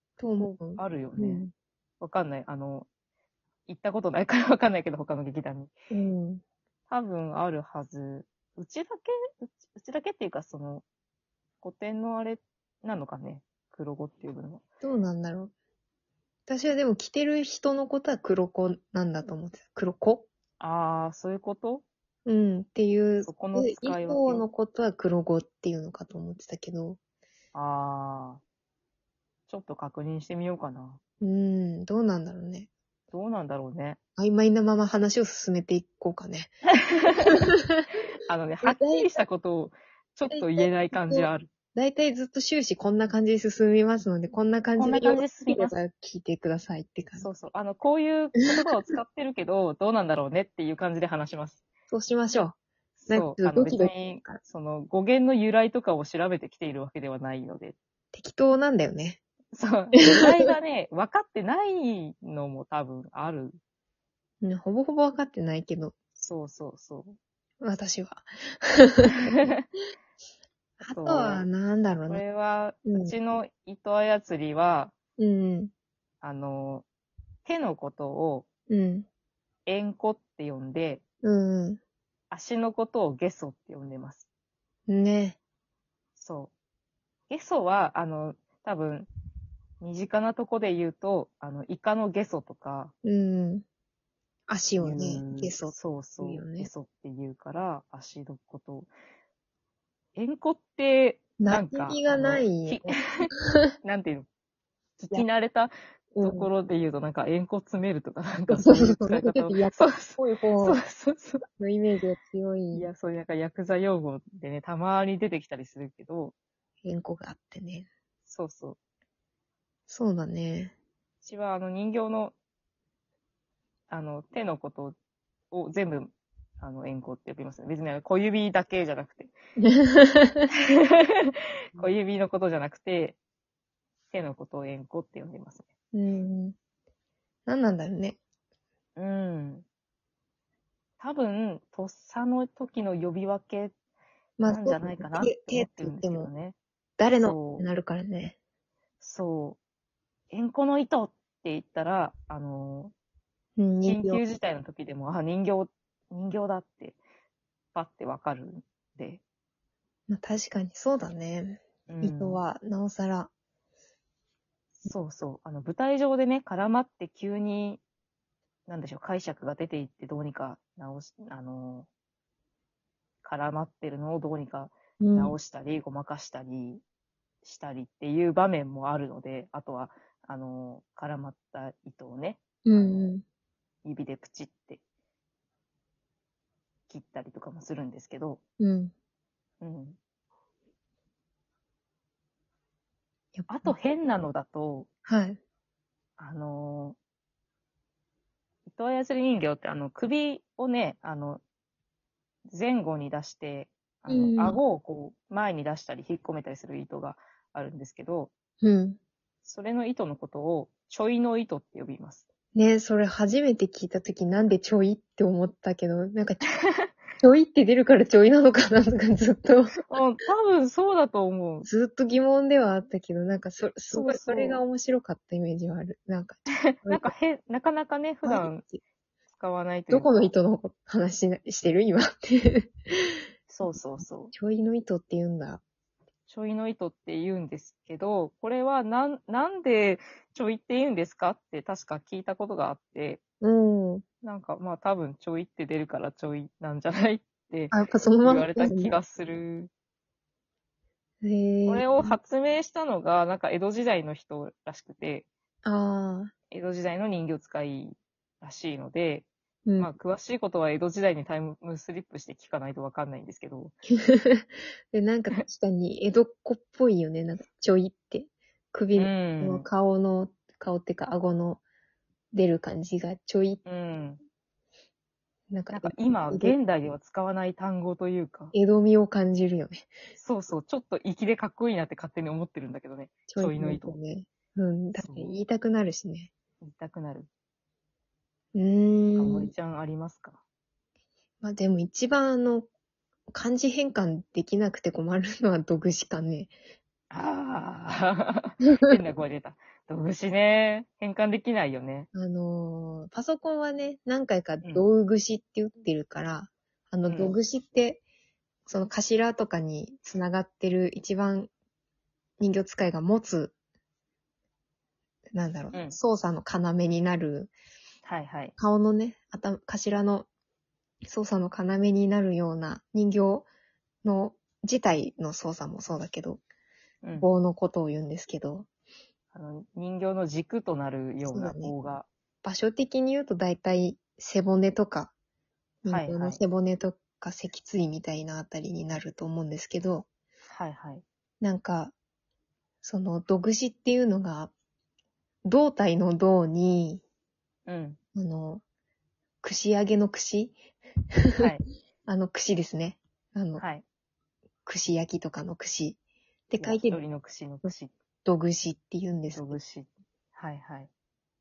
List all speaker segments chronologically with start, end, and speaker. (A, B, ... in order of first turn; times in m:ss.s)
0:00.2-0:01.5 A
0:00.4-0:01.4 B
0:02.0-0:02.9 B
0:03.7-0:05.7 B
0:05.9-0:06.4 A
0:06.9-0:10.8 B
0:11.6-0:14.6 B
0:14.8-0:15.5 A
0:16.5-0:20.3 A
0:20.6-0:21.8 B
0:22.3-0:27.0 A
0:23.2-0:24.4 B
0:27.5-0:28.4 B
0:29.5-0:31.0 B
0:31.2-0:32.7 A
0:33.1-0:34.0 B
0:34.2-0:36.5 A
0:37.0-0:37.4 B
0:37.3-0:37.9 A
0:38.2-0:41.5 B
0:38.6-0:39.1 A
0:40.3-0:47.3 A
0:44.8-0:45.8 B
0:47.2-0:51.6 B
0:51.9-0:52.6 A
0:53.0-0:57.8 B
0:53.1-0:54.4 A
0:58.1-0:59.2 A
0:59.5-1:03.6 B
1:00.0-1:00.5 A
1:04.4-1:05.9 A
1:06.2-1:07.2 B
1:07.6-1:09.3 A
1:09.1-1:09.6 B
1:10.8-1:12.2 A
1:10.8-1:11.5 B
1:12.1-1:14.9 B
1:12.9-1:13.2 A
1:15.2-1:15.7 A
1:16.2-1:16.8 B
1:17.4-1:18.5 B
1:18.7-1:19.1 A
1:19.7-1:21.0 B
1:21.2-1:21.8 A
1:22.3-1:24.3 B
1:24.9-1:25.4 A
1:26.2-1:26.5 B
1:27.3-1:29.1 B
1:29.8-1:32.9 B
1:33.0-1:33.6 A
1:34.5-1:36.7 A
1:34.8-1:38.9 B
1:40.2-1:43.3 B
1:41.4-1:43.7 A
1:43.8-1:44.3 B
1:45.0-1:51.4 B
1:46.2-1:46.5 A
1:48.5-1:50.8 A
1:51.6-1:52.9 A
1:52.7-1:56.4 B
1:56.8-1:57.9 A
1:58.3-1:58.8 B
1:59.9-2:00.7 A
2:01.2-2:02.4 B
2:03.9-2:05.0 B
2:05.5-2:09.3 B
2:09.6-2:10.5 A
2:10.7-2:13.2 B
2:14.1-2:15.7 B
2:15.9-2:16.6 A
2:17.5-2:18.2 A
2:19.0-2:19.6 B
2:21.0-2:23.7 B
2:24.4-2:26.3 A
2:24.4-2:26.6 B
2:27.0-2:28.4 A
2:27.2-2:27.7 B
2:29.0-2:29.6 B
2:30.3-2:32.9 B
2:33.6-2:34.2 A
2:33.8-2:37.0 B
2:37.7-2:39.2 B
2:40.1-2:43.3 A
2:41.9-2:42.4 B
2:44.8-2:47.8 B
2:48.7-2:51.9 B
2:53.2-2:56.8 B
2:55.0-2:55.4 A
2:57.4-3:03.1 B
3:02.6-3:03.2 A
3:03.8-3:04.8 B
3:06.9-3:08.4 B
3:08.6-3:08.9 A
3:09.6-3:10.0 B
3:13.4-3:13.8 A
3:13.5-3:14.9 B
3:15.1-3:15.4 A
3:16.2-3:17.0 B
3:18.7-3:21.4 B
3:22.5-3:28.3 B
3:24.1-3:24.6 A
3:28.6-3:29.0 A
3:29.4-3:32.3 B
3:32.5-3:36.5 A
3:37.2-3:39.8 A
3:39.9-3:41.7 B
3:41.7-3:47.1 A
3:43.9-3:44.6 B
3:46.7-3:48.6 B
3:48.2-3:48.8 A
3:49.3-3:50.3 B
3:49.9-3:53.7 A
3:53.5-3:54.3 B
3:54.3-3:55.6 A
3:56.3-4:03.2 B
4:03.4-4:04.0 A
4:04.2-4:09.7 B
4:07.7-4:09.0 A
4:11.2-4:12.2 A
4:11.6-4:15.3 B
4:15.6-4:16.3 A
4:16.5-4:19.3 B
4:19.7-4:19.9 A
4:19.8-4:23.8 B
4:23.9-4:31.6 A
4:29.0-4:29.7 B
4:32.3-4:33.6 A
4:33.6-4:34.2 B
4:35.5-4:36.6 A
4:35.7-4:38.5 B
4:38.5-4:39.9 A
4:40.2-4:44.0 B
4:43.3-4:46.3 A
4:45.0-4:45.3 B
4:46.6-4:47.3 B
4:48.5-4:49.5 A
4:49.1-4:50.4 B
4:51.4-4:52.7 A
4:53.3-4:56.5 A
4:57.1-5:02.1 B
4:58.6-4:59.0 A
5:02.1-5:08.0 A
5:07.1-5:07.4 B
5:08.7-5:11.5 A
5:12.4-5:13.5 A
5:15.3-5:17.5 A
5:15.7-5:16.0 B
5:18.0-5:18.6 B
5:18.6-5:20.3 A
5:21.1-5:23.5 A
5:24.0-5:26.4 A
5:27.0-5:27.3 B
5:27.2-5:28.7 A
5:29.3-5:32.1 B
5:31.3-5:31.7 A
5:32.4-5:35.1 A
5:35.8-5:40.1 A
5:35.9-5:36.4 B
5:40.5-5:41.0 B
5:41.4-5:42.0 A
5:42.8-5:44.5 A
5:45.4-5:47.0 A
5:47.7-5:48.0 B
5:48.2-5:48.6 A
5:49.4-5:50.6 A
5:51.4-5:51.6 B
5:52.1-5:53.6 A
5:53.6-5:53.8 B
5:54.6-5:56.0 A
5:56.5-5:57.0 A
5:56.6-5:57.9 B
5:58.2-5:59.6 A
5:59.3-6:00.9 B